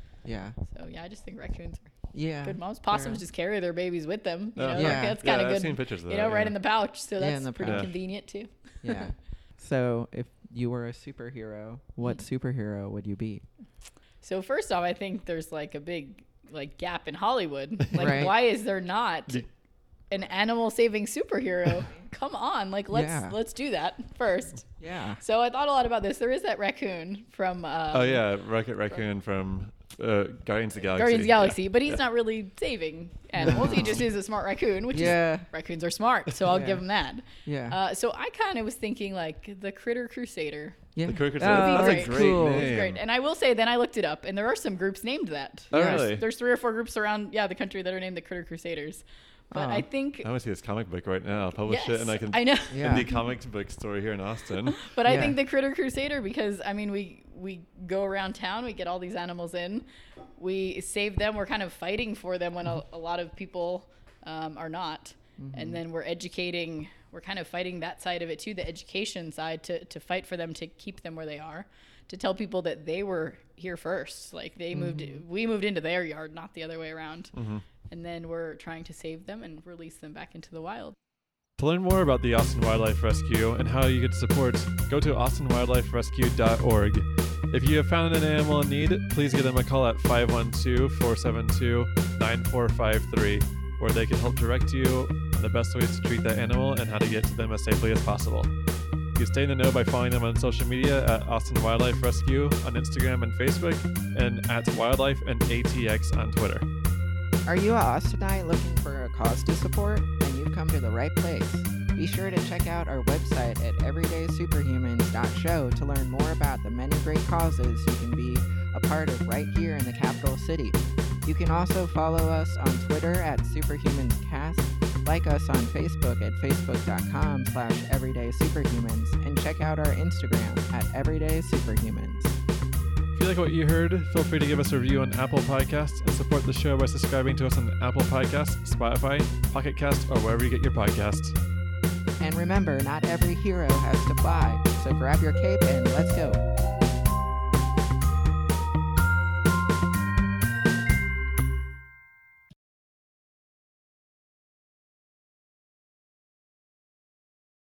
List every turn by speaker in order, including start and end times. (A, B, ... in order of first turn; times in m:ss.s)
0:00.2-0:00.6 A
0:00.6-0:09.1 B
0:02.1-0:03.2 A
0:04.6-0:06.6 C
0:04.7-0:05.2 A
0:07.2-0:08.0 A
0:07.6-0:07.9 C
0:08.8-0:13.4 A
0:14.2-0:19.4 B
0:18.0-0:18.3 A
0:20.1-0:28.2 B
0:22.9-0:23.4 A
0:24.8-0:25.2 A
0:27.9-0:32.0 C
0:31.0-0:50.3 B
0:33.4-0:34.1 A
0:33.4-0:34.0 C
0:34.9-0:35.5 A
0:36.5-0:36.8 A
0:37.4-0:37.8 A
0:41.0-0:42.7 A
0:41.0-0:43.0 C
0:45.7-0:46.2 C
0:45.7-0:46.0 A
0:49.5-0:49.8 A
0:50.2-0:55.0 C
0:51.7-0:53.2 B
0:52.7-0:53.1 A
0:54.8-0:59.8 B
0:55.0-0:55.4 A
1:00.4-1:20.9 B
1:05.4-1:05.8 A
1:14.7-1:15.2 A
1:17.3-1:17.6 C
1:21.6-1:38.5 C
1:39.2-1:46.6 C
1:47.4-2:12.4 A
2:13.1-2:21.4 C
2:22.2-2:26.4 A